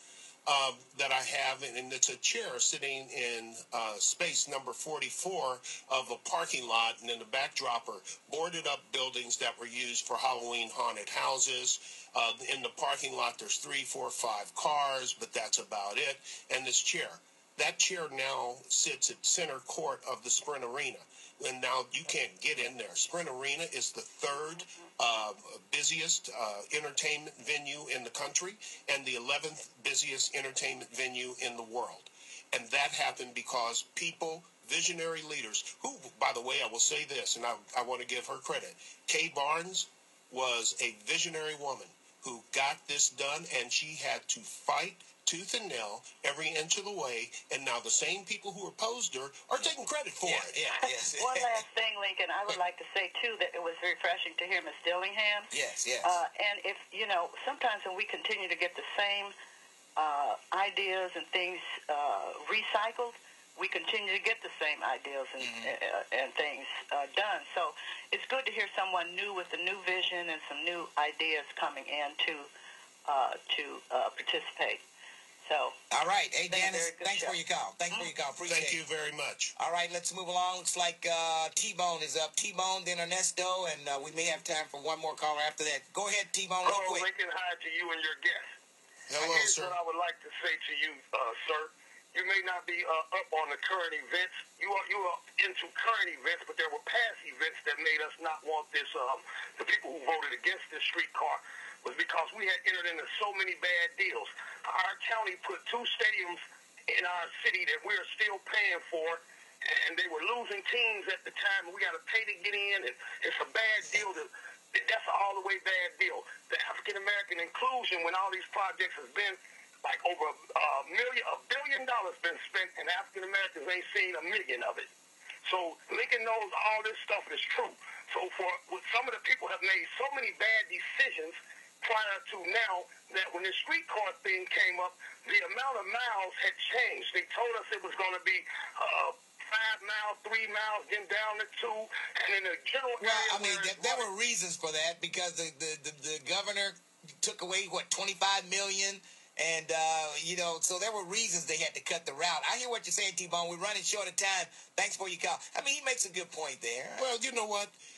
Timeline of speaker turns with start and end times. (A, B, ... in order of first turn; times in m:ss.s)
0:00.5-0:50.6 A
0:50.2-0:51.6 B
0:50.8-0:55.5 C
0:55.5-0:56.2 B
0:56.0-0:59.3 C
1:00.0-1:12.5 C
1:05.4-1:05.7 B
1:13.1-1:14.8 C
1:15.4-1:15.8 C
1:15.9-1:18.8 B
1:16.5-1:17.4 C
1:18.5-1:19.5 A
1:19.6-1:27.1 B
1:26.6-1:28.4 D
1:29.1-1:29.8 A
1:29.2-2:04.9 D
2:05.4-2:24.1 D
2:23.0-2:37.1 B
2:37.0-2:37.7 A